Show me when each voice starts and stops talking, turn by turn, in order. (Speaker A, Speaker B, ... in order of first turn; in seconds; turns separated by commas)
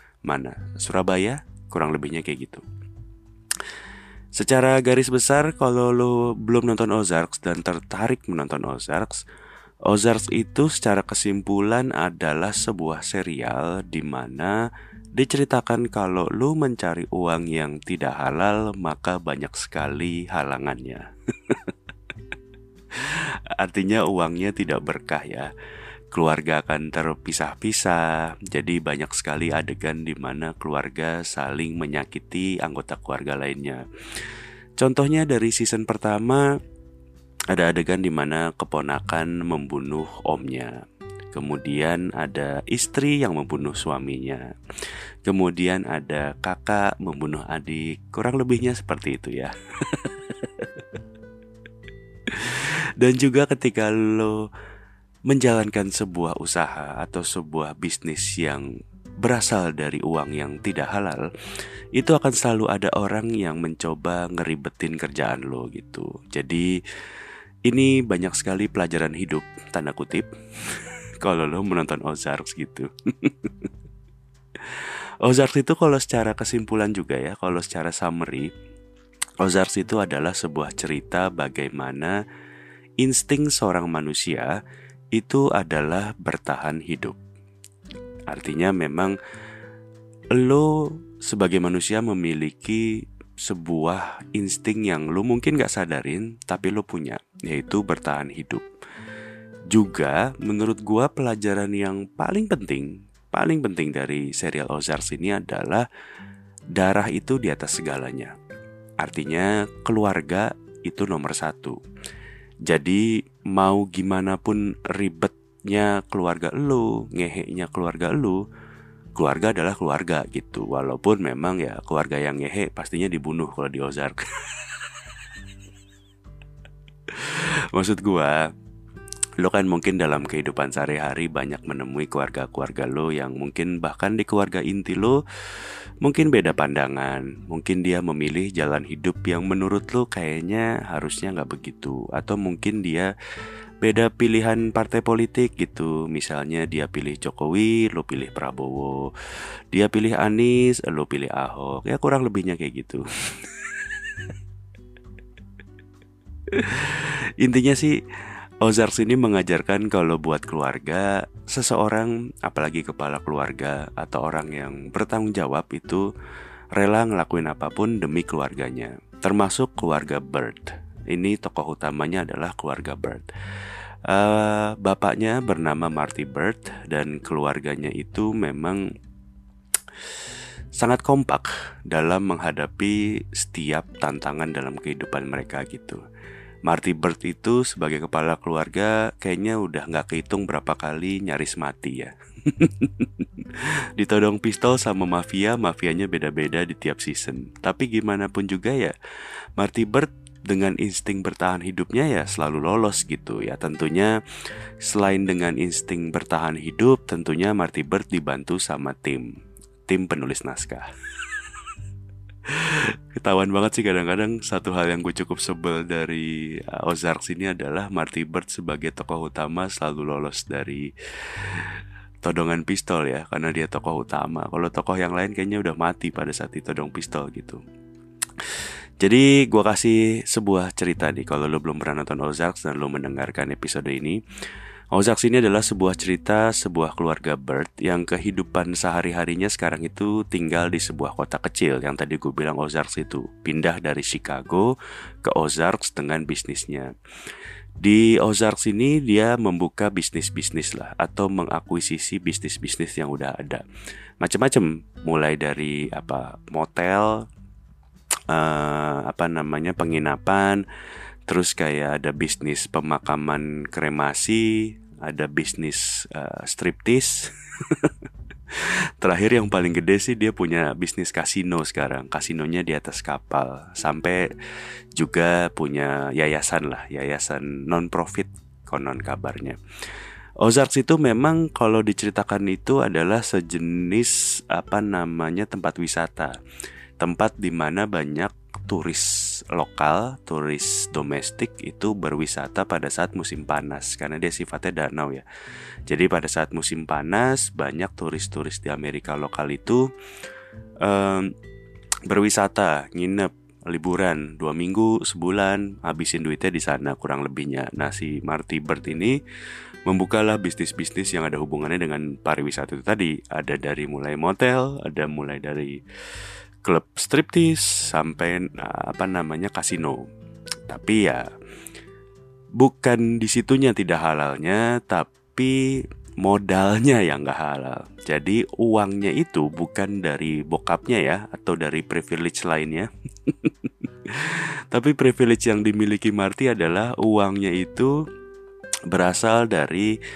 Speaker A: 0.3-2.6, Speaker A: 4.4-9.2, Speaker A: 9.9-14.6, Speaker A: 15.2-21.8, Speaker A: 22.9-25.5, Speaker A: 26.1-34.2, Speaker A: 34.8-36.6, Speaker A: 37.5-40.8, Speaker A: 41.3-44.5, Speaker A: 45.2-51.0, Speaker A: 52.3-54.5, Speaker A: 55.3-58.7, Speaker A: 59.2-61.3, Speaker A: 62.0-66.8, Speaker A: 67.7-73.7, Speaker A: 74.5-78.5, Speaker A: 79.4-82.2, Speaker A: 83.0-84.6, Speaker A: 85.1-87.2, Speaker A: 88.3-89.2, Speaker A: 90.3-98.7, Speaker A: 99.7-105.9, Speaker A: 106.8-108.3, Speaker A: 109.0-111.8, Speaker A: 112.7-118.5, Speaker A: 119.2-125.1, Speaker A: 127.1-128.5, Speaker A: 129.4-143.1, Speaker A: 143.8-149.1, Speaker A: 149.7-154.3, Speaker A: 156.5-158.0, Speaker A: 158.6-166.1, Speaker A: 166.8-173.3, Speaker A: 174.1-178.9, Speaker A: 180.8-186.0, Speaker A: 186.7-198.9, Speaker A: 199.6-204.2, Speaker A: 204.8-209.3, Speaker A: 209.9-211.3, Speaker A: 212.5-227.6, Speaker A: 228.4-234.2, Speaker A: 234.9-246.9, Speaker A: 247.8-253.6, Speaker A: 254.2-257.3, Speaker A: 258.3-260.6, Speaker A: 261.3-268.0, Speaker A: 268.5-274.3, Speaker A: 274.9-279.6, Speaker A: 280.4-286.4, Speaker A: 287.0-295.2, Speaker A: 295.9-299.9, Speaker A: 300.8-301.4, Speaker A: 302.1-309.2, Speaker A: 309.9-315.8, Speaker A: 316.6-320.1, Speaker A: 320.7-321.3, Speaker A: 322.6-338.0, Speaker A: 338.9-340.0